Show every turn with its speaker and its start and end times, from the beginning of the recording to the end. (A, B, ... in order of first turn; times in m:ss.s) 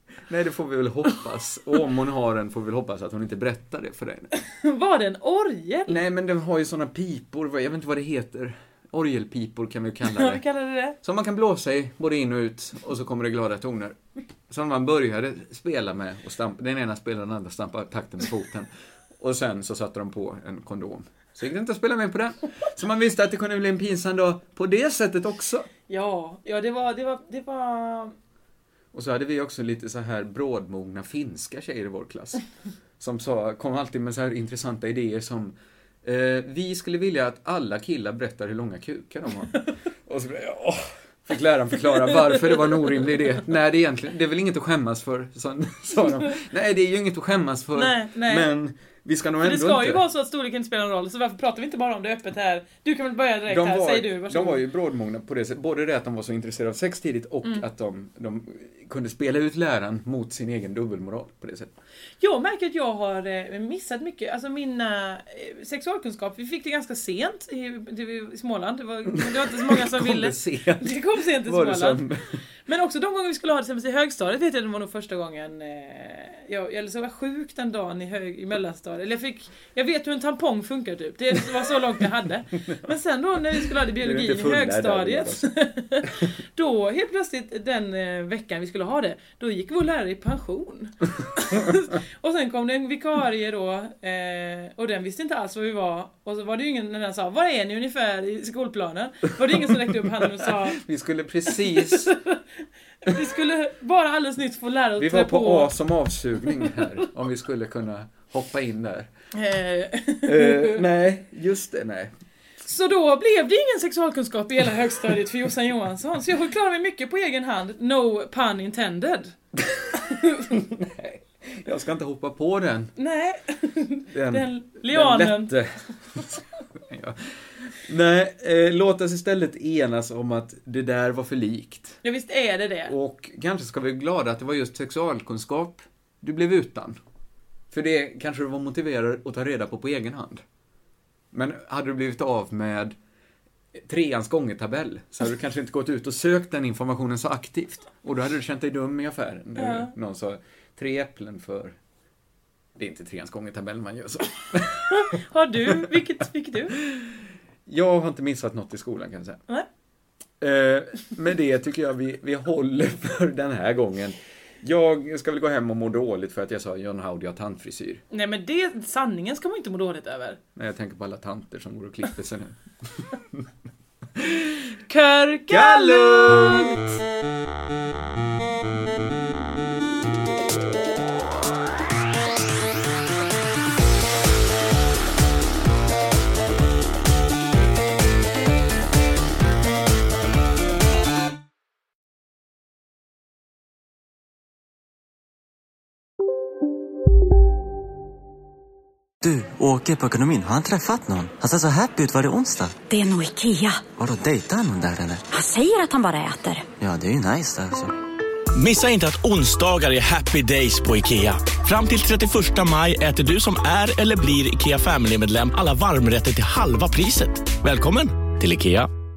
0:00.3-0:04.3 A
0:04.5-0:06.0 B
0:05.9-0:10.4 A
0:10.0-0:11.0 B
0:11.0-0:14.0 A
0:14.5-0:25.7 A
0:25.9-0:28.1 B
0:28.9-0:32.4 A
0:33.0-0:50.0 A
0:42.3-0:42.7 B
0:47.7-0:48.5 B
0:49.4-0:54.6 B
0:53.5-1:01.7 A
1:02.2-1:12.0 B
1:09.2-1:12.2 A
1:12.7-1:40.8 B
1:24.0-1:25.5 A
1:40.4-1:42.1 A
1:41.5-1:42.4 B
1:43.0-1:45.7 B
1:45.0-1:49.1 A
1:46.6-1:46.8 B
1:49.3-1:50.8 B
1:50.2-1:52.1 A
1:52.6-1:59.3 B
1:59.7-2:02.9 A
2:00.1-2:00.4 B
2:03.0-2:05.5 B
2:04.1-2:12.0 A
2:12.0-2:12.9 B
2:12.8-2:17.0 A
2:17.7-2:20.4 A
2:21.3-2:22.9 A
2:23.8-2:31.8 A
2:29.6-2:29.9 B
2:32.8-2:35.0 A
2:34.9-2:36.8 B
2:36.8-2:39.4 A
2:40.4-2:48.0 A
2:48.1-2:50.4 B
2:50.6-2:52.6 A
2:53.1-2:53.4 A
2:54.2-2:54.5 A
2:54.9-2:56.8 B
2:55.5-2:56.8 A
3:19.2-3:22.8 C
3:22.9-3:23.9 D
3:23.9-3:25.2 C
3:25.3-3:26.7 D
3:26.8-3:27.9 C
3:28.5-3:38.9 E